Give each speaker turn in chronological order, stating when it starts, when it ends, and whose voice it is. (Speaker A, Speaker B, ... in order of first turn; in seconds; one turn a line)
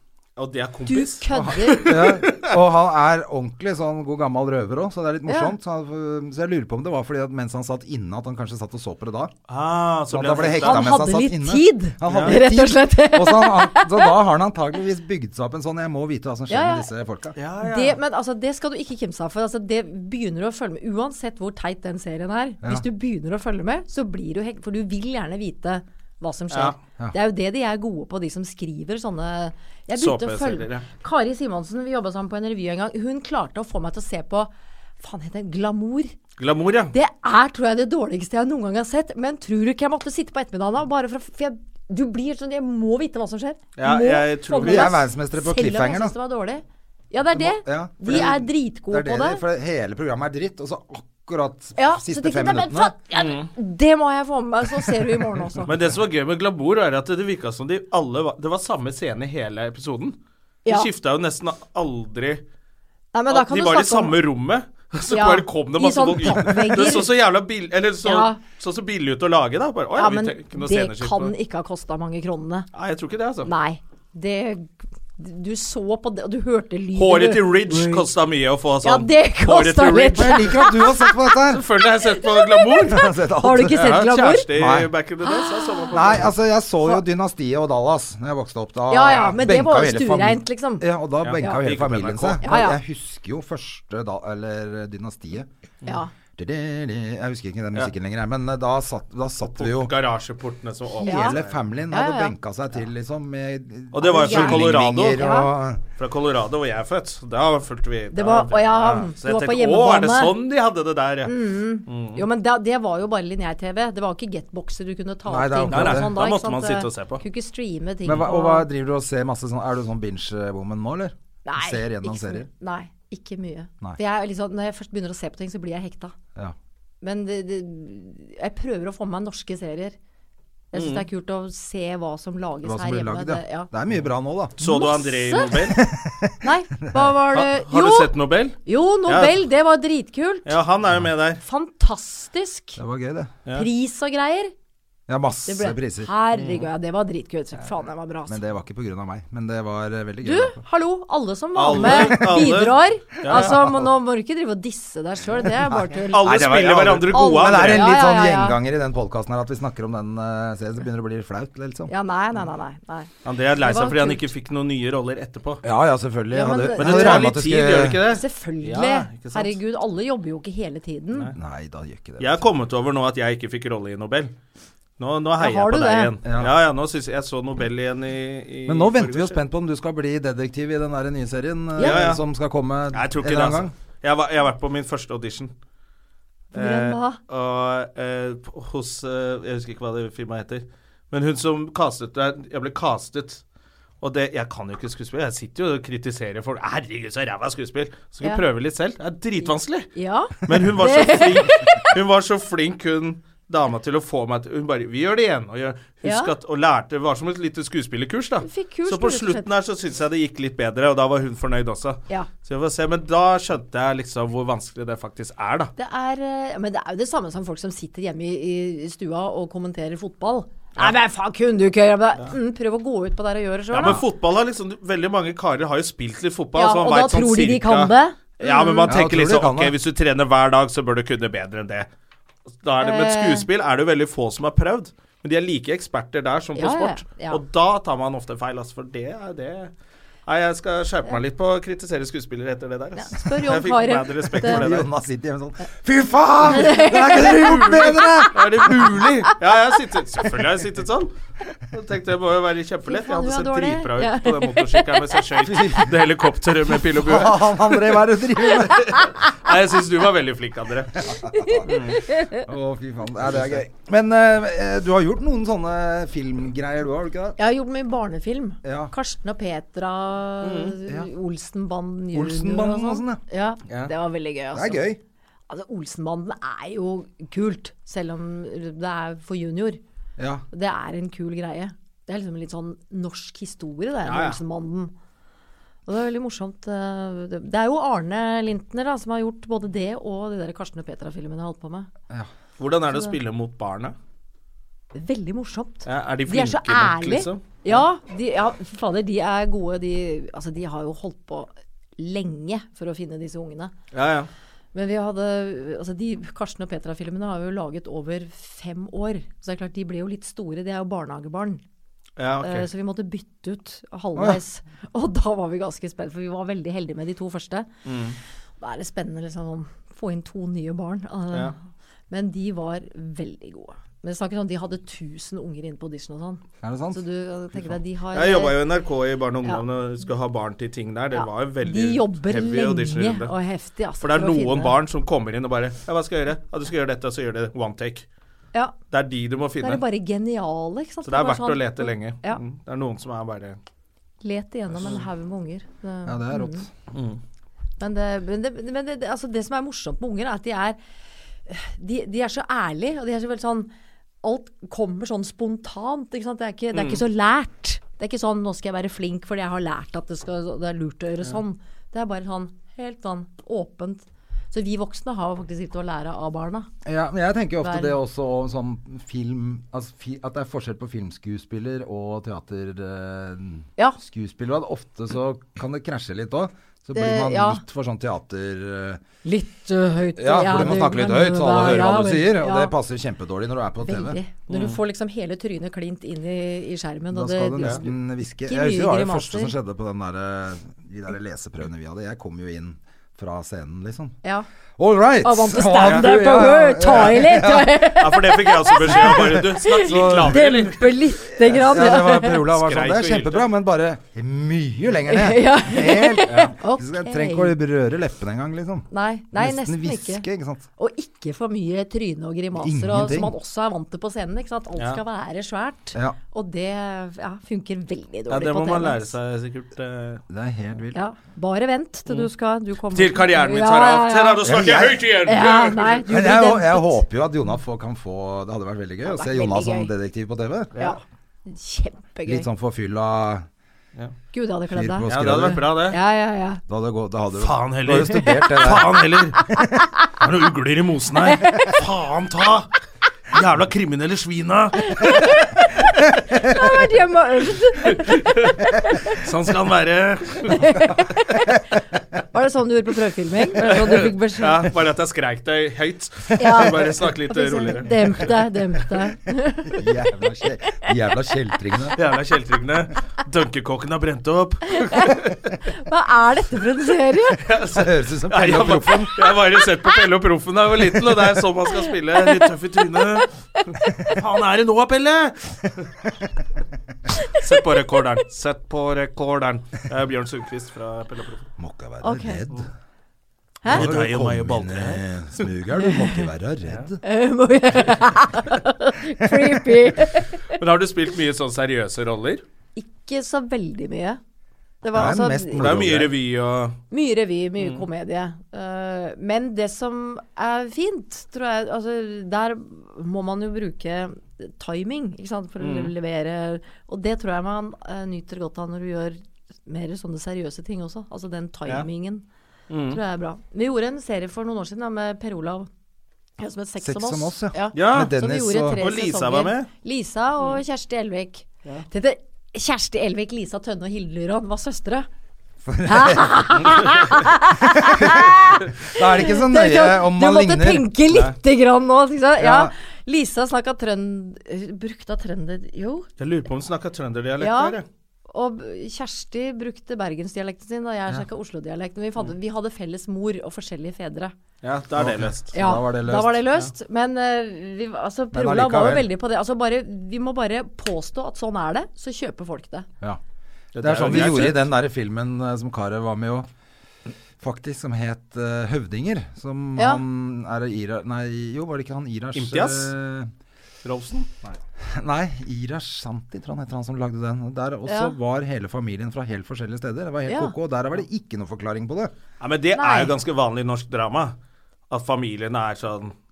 Speaker A: 0.4-2.5
Speaker B: 0.8-2.0
Speaker C: 1.3-9.3
Speaker B: 5.3-5.5
Speaker A: 9.5-10.9
Speaker C: 10.1-17.3
Speaker B: 10.6-14.1
Speaker A: 12.1-12.3
Speaker B: 16.5-16.9
Speaker A: 17.4-18.0
Speaker B: 17.6-36.1
Speaker A: 26.5-26.8
Speaker A: 30.0-30.9
Speaker A: 36.4-36.9
Speaker B: 36.9-49.4
Speaker A: 43.8-45.0
Speaker C: 44.6-46.1
Speaker C: 47.3-52.9
Speaker B: 51.8-55.7
Speaker A: 53.1-53.5
Speaker A: 55.7-62.4
Speaker B: 63.1-64.2
Speaker A: 63.3-71.3
Speaker B: 65.1-67.1
Speaker B: 68.0-68.4
Speaker B: 70.0-72.7
Speaker A: 72.7-73.5
Speaker B: 73.4-78.0
Speaker A: 76.9-80.5
Speaker B: 78.8-81.2
Speaker C: 80.1-81.6
Speaker A: 81.5-83.1
Speaker B: 81.8-84.5
Speaker C: 82.9-84.9
Speaker A: 83.7-86.3
Speaker B: 85.2-86.0
Speaker C: 85.9-95.5
Speaker B: 88.9-90.8
Speaker A: 91.2-92.5
Speaker B: 92.4-92.8
Speaker B: 95.8-96.1
Speaker C: 96.3-99.9
Speaker A: 99.5-101.6
Speaker C: 101.0-105.8
Speaker B: 101.0-101.4
Speaker B: 101.9-102.3
Speaker A: 103.9-105.2
Speaker B: 104.0-105.5
Speaker A: 106.0-112.2
Speaker B: 108.1-110.3
Speaker B: 111.2-118.7
Speaker C: 115.3-116.2
Speaker A: 115.7-117.2
Speaker C: 118.0-122.5
Speaker B: 121.4-126.1
Speaker B: 127.0-130.0
Speaker B: 130.7-133.7
Speaker A: 130.7-131.0
Speaker C: 132.6-134.5
Speaker A: 134.6-135.8
Speaker B: 134.6-135.7
Speaker C: 135.7-137.1
Speaker B: 136.4-138.1
Speaker A: 137.3-139.4
Speaker B: 138.6-140.5
Speaker A: 140.4-141.4
Speaker B: 141.4-142.8
Speaker C: 142.8-143.3
Speaker B: 143.5-144.5
Speaker C: 145.1-146.1
Speaker B: 145.4-148.4
Speaker A: 146.3-146.7
Speaker C: 148.3-150.6
Speaker B: 150.2-156.5
Speaker A: 151.5-153.6
Speaker C: 151.8-152.5
Speaker C: 153.2-153.9
Speaker C: 155.4-161.9
Speaker A: 156.1-157.9
Speaker B: 157.1-158.6
Speaker B: 161.9-164.3
Speaker A: 163.2-165.6
Speaker C: 165.6-168.0
Speaker B: 166.3-167.4
Speaker A: 166.8-169.6
Speaker B: 168.0-171.3
Speaker C: 171.3-172.4
Speaker A: 172.2-174.3
Speaker A: 175.0-179.4
Speaker B: 175.4-176.1
Speaker C: 176.2-176.5
Speaker C: 178.7-183.7
Speaker B: 181.8-182.0
Speaker A: 181.8-182.2
Speaker A: 182.9-185.5
Speaker B: 186.5-187.2
Speaker A: 186.5-193.4
Speaker A: 194.0-199.9
Speaker B: 199.4-202.0
Speaker A: 200.4-215.7
Speaker B: 206.0-206.3
Speaker B: 208.4-209.5
Speaker B: 215.8-224.0
Speaker A: 223.7-231.9
Speaker B: 226.5-228.9
Speaker C: 228.8-229.7
Speaker A: 232.6-239.7
Speaker B: 232.8-233.4
Speaker B: 236.6-237.4
Speaker A: 240.2-244.9
Speaker B: 243.0-244.7
Speaker C: 244.4-249.0
Speaker B: 246.4-248.5
Speaker A: 247.2-251.1
Speaker A: 251.7-257.7
Speaker B: 252.9-255.2
Speaker C: 255.4-255.9
Speaker C: 256.8-258.9
Speaker A: 258.6-261.1
Speaker C: 261.0-267.4
Speaker B: 261.3-262.4
Speaker A: 261.6-262.1
Speaker B: 267.4-274.8
Speaker C: 268.6-268.9
Speaker A: 270.4-270.7
Speaker C: 272.1-273.9
Speaker C: 274.5-275.0
Speaker B: 275.5-279.8
Speaker C: 280.2-280.4
Speaker B: 280.5-284.9
Speaker A: 284.0-284.4
Speaker B: 285.9-291.9
Speaker A: 292.6-293.9
Speaker B: 294.9-303.7
Speaker A: 295.8-297.8
Speaker A: 303.9-304.3
Speaker B: 304.7-311.6
Speaker A: 312.2-312.6
Speaker B: 312.4-317.7
Speaker A: 317.8-318.2
Speaker B: 318.6-321.5
Speaker B: 322.1-326.4
Speaker C: 326.6-327.0
Speaker B: 326.9-328.5
Speaker A: 328.1-333.3
Speaker B: 331.1-334.8
Speaker A: 334.0-338.1
Speaker A: 338.9-339.8
Speaker B: 339.6-342.4
Speaker A: 341.0-343.6
Speaker B: 344.2-346.6
Speaker C: 346.1-346.7
Speaker A: 346.9-347.2
Speaker B: 347.8-350.8
Speaker B: 351.5-353.7
Speaker B: 354.2-366.7
Speaker A: 356.7-357.0
Speaker C: 366.8-379.0
Speaker B: 367.6-367.9
Speaker B: 376.9-377.6
Speaker B: 379.2-382.7
Speaker C: 380.2-384.2
Speaker B: 383.8-389.5
Speaker A: 384.5-384.8
Speaker C: 387.1-394.1
Speaker C: 394.8-397.9
Speaker B: 395.2-402.4
Speaker A: 395.8-396.1
Speaker A: 396.9-397.1
Speaker A: 397.9-400.9
Speaker C: 398.9-400.7
Speaker C: 401.2-410.6
Speaker A: 402.5-403.5
Speaker B: 405.1-407.5
Speaker A: 406.3-406.5
Speaker B: 408.9-410.2
Speaker B: 410.8-419.1
Speaker C: 412.6-413.3
Speaker A: 418.3-420.2
Speaker C: 420.3-421.0
Speaker B: 420.9-427.0
Speaker A: 422.9-426.0
Speaker C: 424.4-425.1
Speaker C: 426.1-430.7
Speaker B: 429.0-429.9
Speaker A: 430.7-431.0
Speaker B: 430.8-432.5
Speaker C: 432.2-433.5
Speaker B: 434.3-436.6
Speaker C: 434.7-435.8
Speaker A: 435.1-436.0
Speaker C: 436.7-439.1
Speaker A: 437.4-439.4
Speaker B: 438.3-439.6
Speaker A: 440.2-442.7
Speaker B: 441.2-441.8
Speaker A: 443.3-445.5
Speaker B: 444.8-449.2
Speaker A: 447.8-450.6
Speaker B: 450.5-451.6
Speaker B: 452.3-454.6
Speaker A: 453.6-458.4
Speaker B: 456.4-459.9
Speaker C: 459.7-462.0
Speaker A: 461.9-465.5
Speaker B: 464.7-467.4
Speaker A: 467.4-473.3
Speaker C: 467.7-469.1
Speaker B: 473.6-474.2
Speaker A: 474.1-475.9
Speaker B: 477.1-477.4
Speaker A: 477.3-481.5
Speaker C: 481.6-482.7
Speaker B: 482.0-482.4
Speaker A: 483.6-485.4
Speaker C: 483.7-487.0
Speaker B: 485.8-486.2
Speaker B: 487.0-490.6
Speaker A: 490.5-492.4
Speaker B: 492.8-494.2
Speaker B: 494.8-495.7
Speaker C: 494.9-496.1
Speaker A: 495.6-496.8
Speaker B: 496.9-512.2
Speaker A: 505.6-505.9
Speaker A: 512.7-513.0
Speaker B: 512.9-515.7
Speaker B: 516.4-525.1
Speaker C: 516.8-518.8
Speaker A: 517.7-518.1
Speaker A: 518.7-519.7
Speaker C: 525.6-526.9
Speaker B: 525.8-536.1
Speaker C: 527.6-530.9
Speaker A: 531.1-531.3
Speaker C: 532.4-532.7
Speaker A: 536.2-537.9
Speaker B: 537.4-537.8
Speaker B: 538.3-544.3
Speaker A: 544.6-545.5
Speaker C: 545.0-546.4
Speaker B: 545.5-552.9
Speaker C: 548.3-549.1
Speaker A: 553.7-554.7
Speaker C: 553.8-556.5
Speaker C: 557.4-563.3
Speaker A: 562.3-562.9
Speaker A: 563.8-564.6
Speaker C: 564.8-572.1
Speaker B: 567.9-568.1
Speaker B: 570.3-570.5
Speaker A: 572.4-574.3
Speaker B: 572.7-573.1
Speaker A: 574.9-576.1